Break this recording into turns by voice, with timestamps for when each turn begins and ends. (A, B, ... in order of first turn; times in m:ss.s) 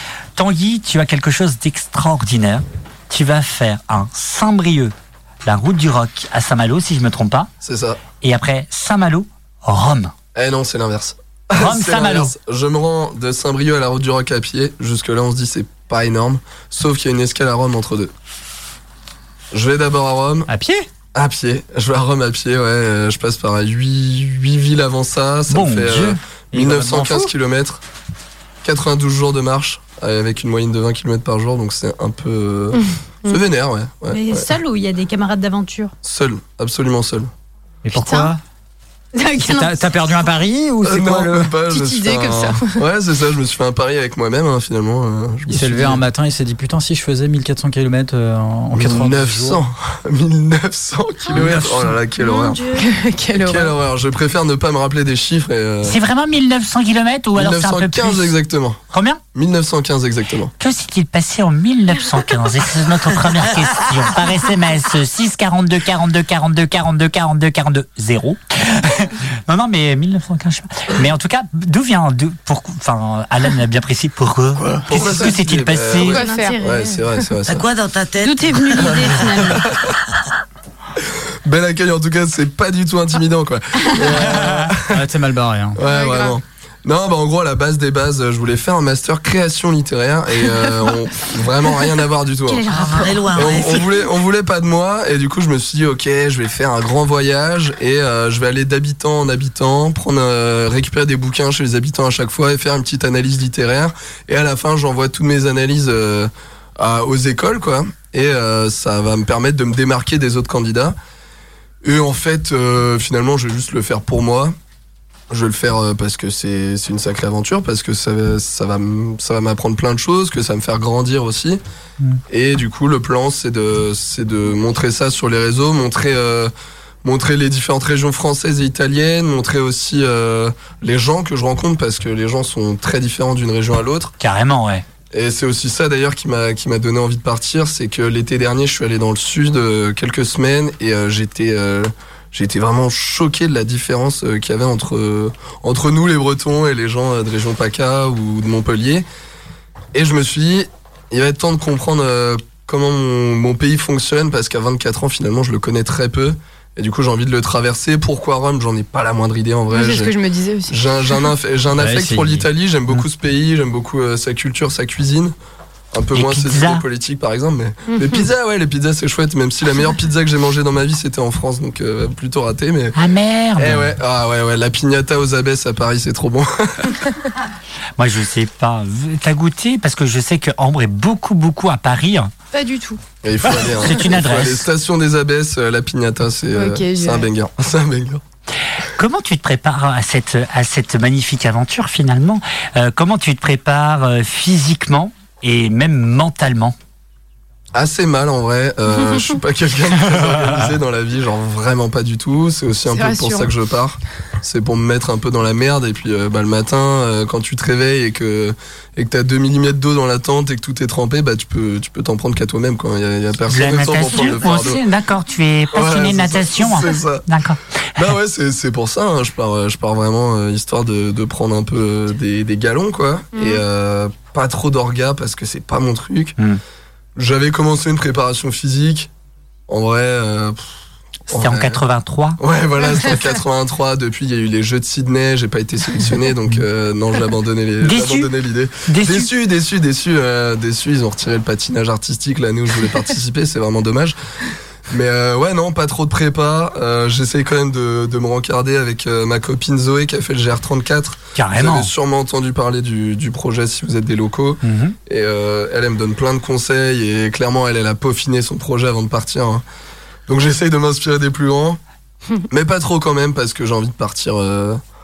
0:00.4-0:04.9 A
0:05.4-0:07.5 A
0:07.6-0:08.0 B
0:08.2-0:10.1 A
0:10.3-0:18.1 B
0:11.6-0:12.3 A
0:19.5-0:20.5 B
0:20.5-0:20.9 C
0:21.1-0:27.8 B
0:25.5-0:26.2 A
0:26.5-0:27.3 C
0:28.6-0:34.5 B
0:32.8-0:33.4 D
0:34.1-0:35.9 E
0:36.0-0:37.3 B
0:37.8-0:38.4 C
0:37.9-0:38.3 E
0:39.1-0:40.2 E
0:39.4-0:41.5 C
0:40.8-0:46.0 B
0:41.7-0:42.8 D
0:45.5-0:49.6 C
0:48.7-0:52.6 B
0:51.3-0:51.9 C
0:52.3-0:52.8 E
0:52.7-0:53.7 D
0:53.3-0:56.0 B
0:55.8-0:58.3 A
0:57.3-0:58.8 B
0:58.9-0:59.2 A
0:59.3-1:00.5 B
1:00.6-1:16.2 A
1:14.6-1:17.7 B
1:16.0-1:16.6 D
1:16.2-1:17.0 E
1:17.5-1:19.3 F
1:18.2-1:19.6 E
1:18.8-1:19.9 B
1:21.4-1:25.1 B
1:24.1-1:25.8 C
1:25.8-1:50.9 B
1:25.9-1:26.3 D
1:31.7-1:32.0 D
1:32.5-1:33.6 E
1:32.7-1:34.0 F
1:51.8-1:54.5 B
1:55.3-2:01.6 B
2:02.3-2:06.5 B
2:07.0-2:14.1 B
2:14.2-2:14.8 A
2:15.1-2:29.0 B
2:29.9-2:40.2 B
2:39.7-2:41.2 D
2:40.7-2:45.3 B
2:41.8-2:42.4 C
2:45.9-2:53.0 B
2:46.1-2:46.8 A
2:47.9-2:48.2 D
2:52.9-2:53.9 A
2:53.6-2:57.0 B
2:58.0-3:02.3 A
3:02.5-3:03.0 D
3:03.2-3:08.2 B
3:03.8-3:04.7 A
3:06.5-3:07.3 D
3:09.0-3:16.7 A
3:17.7-3:34.8 B
3:22.9-3:23.5 D
3:33.5-3:38.0 A
3:35.7-3:37.2 B
3:38.0-3:46.4 B
3:43.3-3:43.6 D
3:47.2-3:49.1 B
3:49.7-3:50.7 B
3:51.3-3:51.8 B
3:51.3-3:52.4 A
3:52.4-4:04.2 B
3:57.8-3:58.3 A
3:58.8-3:59.3 A
4:04.9-4:19.6 B
4:11.3-4:11.9 A
4:14.6-4:15.0 A
4:20.3-4:21.8 B
4:22.5-4:24.8 B